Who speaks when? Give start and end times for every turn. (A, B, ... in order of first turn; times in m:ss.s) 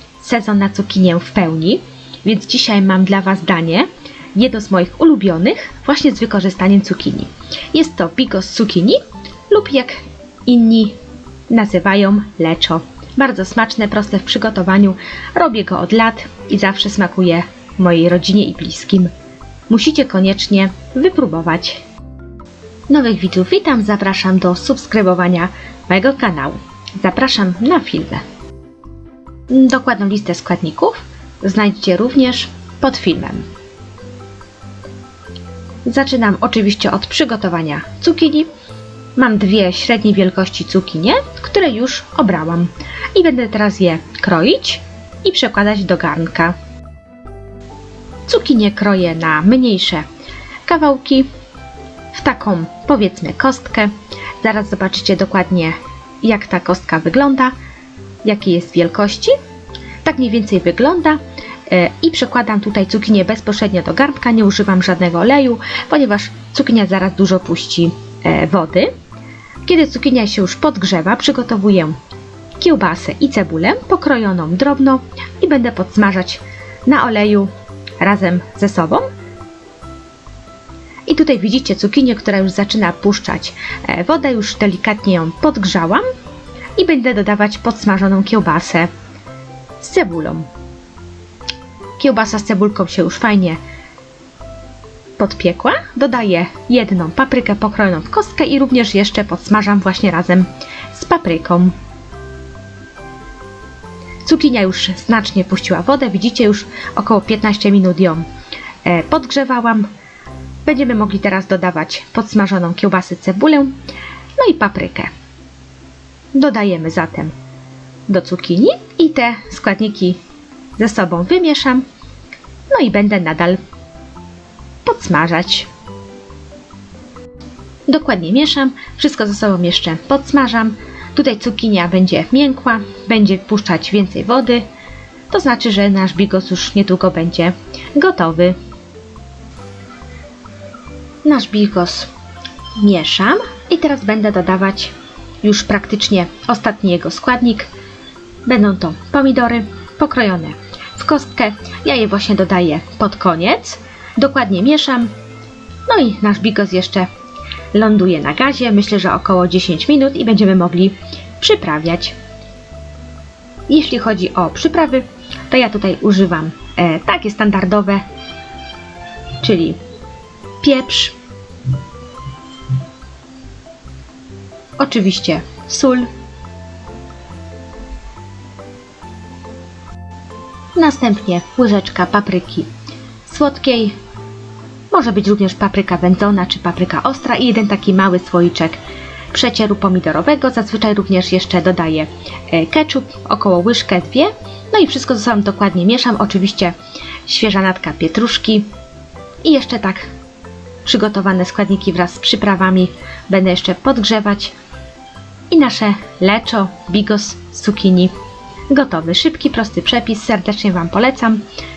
0:00.2-0:11.0 A
0:11.5-0:19.1 A
0:19.7-0:21.8 A
0:22.9-0:28.2 A
0:29.5-0:33.5 A
0:35.9-0:38.5 A
0:39.2-0:46.6 A
0:48.3-0:50.0 A
0:50.7-0:51.3 A
0:52.1-0:57.5 A
0:58.2-0:59.4 A
1:00.0-1:08.9 A
1:09.6-1:12.0 A
1:12.6-1:17.5 A
1:18.0-1:19.1 A
1:21.1-1:26.1 A
1:26.8-1:28.9 A
1:29.8-1:30.5 A
1:32.0-1:33.6 A
1:35.2-1:41.8 A
1:44.2-1:48.2 A
1:48.8-1:49.9 A
1:50.6-1:53.7 A
1:54.4-1:55.1 A
1:56.3-1:57.3 A
1:58.1-2:00.2 A
2:00.8-2:01.8 A
2:02.7-2:03.6 A
2:04.8-2:05.7 A
2:07.9-2:14.7 A
2:15.3-2:18.6 A
2:21.2-2:22.1 A
2:22.8-2:27.7 A
2:28.5-2:35.1 A
2:35.9-2:37.1 A
2:37.7-2:42.2 A
2:43.7-2:48.0 A
2:49.4-2:49.8 A
2:50.6-2:51.2 A
2:54.8-2:56.1 A
3:00.8-3:02.7 A
3:03.3-3:04.0 A
3:04.9-3:08.8 A
3:09.3-3:16.7 A
3:17.3-3:18.7 A
3:19.4-3:20.1 A
3:20.8-3:24.5 A
3:25.5-3:28.1 A
3:28.7-3:31.4 A